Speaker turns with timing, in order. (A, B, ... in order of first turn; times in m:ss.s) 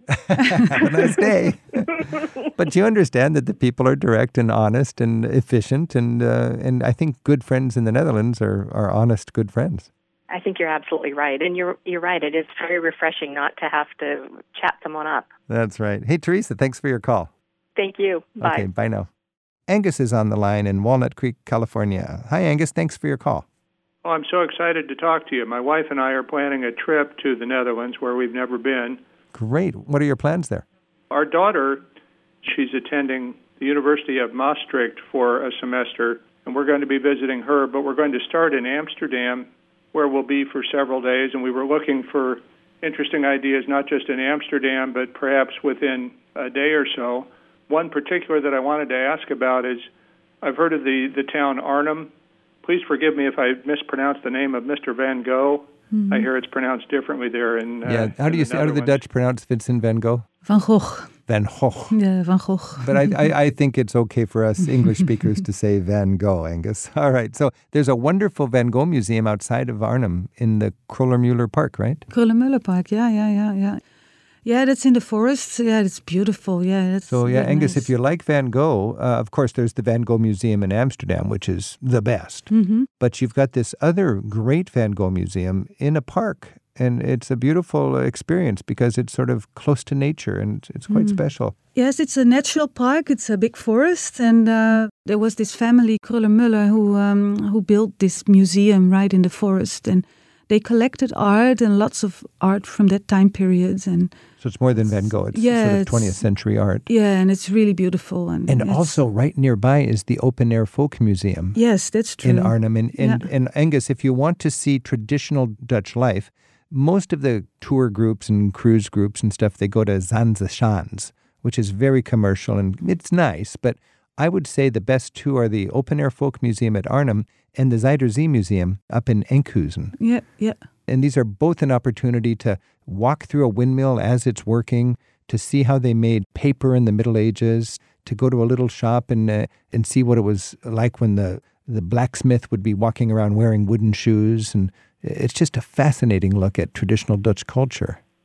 0:00.1-0:09.9 A
0:10.3-0:15.3 B
0:15.5-0:17.3 A
0:17.8-0:18.7 B
0:18.4-0:19.1 A
0:19.7-0:23.4 A
0:24.0-0:29.0 C
0:29.3-0:30.6 A
0:31.1-0:31.8 C
0:32.4-0:49.9 C
0:50.4-0:52.1 C
0:52.6-0:59.0 C
0:55.9-0:56.3 D
0:57.9-1:00.3 A
1:00.5-1:01.1 D
1:01.3-1:02.0 A
1:01.9-1:03.3 D
1:02.8-1:12.0 A
1:12.1-1:13.8 D
1:14.4-1:17.9 D
1:17.1-1:22.5 A
1:22.5-1:22.9 D
1:23.0-1:31.6 A
1:30.9-1:31.2 D
1:31.8-1:44.1 D
1:44.4-1:46.8 A
1:45.3-1:46.2 D
1:46.9-1:49.0 D
1:48.5-1:51.6 A
1:51.6-1:53.2 D
1:52.2-2:10.0 A
2:10.0-2:10.6 D
2:10.9-2:28.0 A